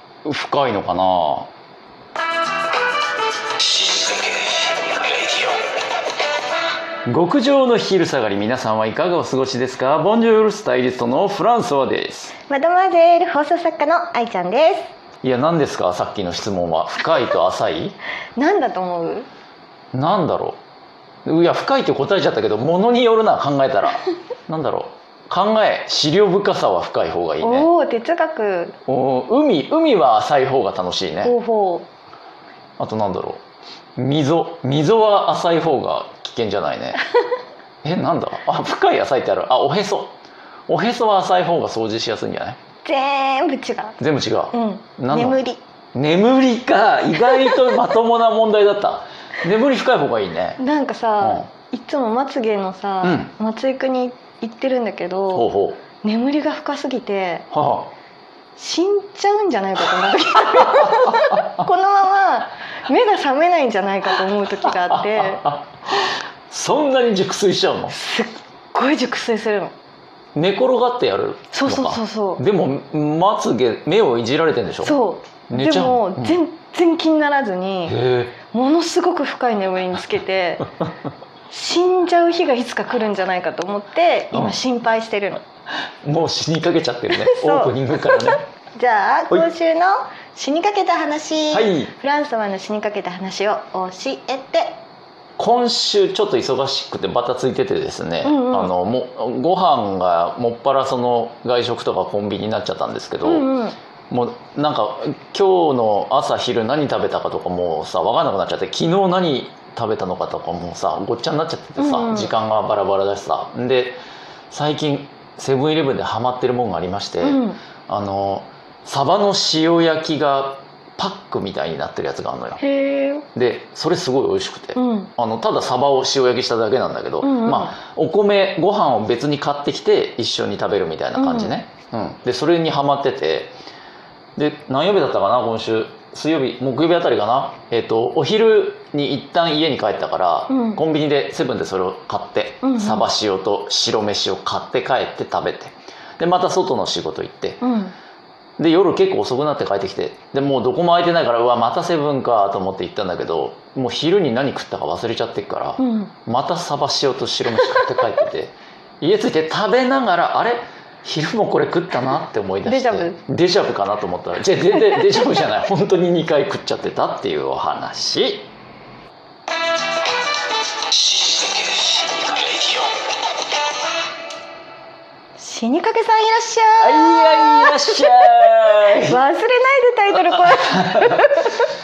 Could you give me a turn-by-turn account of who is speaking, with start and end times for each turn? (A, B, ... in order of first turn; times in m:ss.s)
0:00.2-0:01.5 A
0:07.1-0:12.3 A
0:12.5-0:14.9 B
0:15.2-0:18.0 A
0:18.4-0:19.3 B
0:19.9-0:20.6 A
0:21.2-0:27.7 A
0:27.4-0:28.8 B
0:28.9-0:31.3 A
0:31.2-0:31.9 B
0:32.8-0:33.4 A
0:34.0-0:37.0 A
0:37.8-0:40.2 A
0:40.7-0:42.6 A
0:42.8-0:44.0 B
0:44.0-0:45.4 A
0:44.5-0:45.6 B
0:45.9-0:50.6 A
0:50.6-0:55.5 B
0:51.2-0:51.5 A
0:53.0-0:53.3 A
0:55.3-0:55.8 A
0:56.0-0:57.5 B
0:57.5-0:57.9 A
0:58.6-1:05.4 B
1:00.4-1:01.6 A
1:04.6-1:08.0 A
1:07.9-1:09.7 B
1:10.3-1:15.0 A
1:11.5-1:12.4 B
1:14.8-1:20.7 B
1:15.5-1:16.4 A
1:17.9-1:18.4 A
1:21.5-1:25.4 B
1:24.3-1:24.6 A
1:26.0-1:28.4 A
1:27.1-1:34.8 B
1:31.5-1:31.9 A
1:35.4-1:43.5 A
1:38.2-1:38.7 B
1:43.2-1:43.8 B
1:44.1-1:54.0 A
1:51.8-1:52.3 B
1:54.5-2:02.6 A
1:57.2-1:57.6 B
2:02.6-2:03.2 B
2:03.3-2:13.5 A
2:04.8-2:05.1 B
2:07.2-2:07.8 B
2:11.1-2:11.5 B
2:14.4-2:27.6 A
2:20.5-2:20.8 B
2:22.6-2:23.1 B
2:27.6-2:27.9 B
2:28.6-2:48.5 A
2:35.8-2:36.1 B
2:42.6-2:43.2 B
2:51.8-2:52.7 A
2:55.4-3:01.6 B
2:56.8-2:59.2 A
3:00.3-3:01.4 A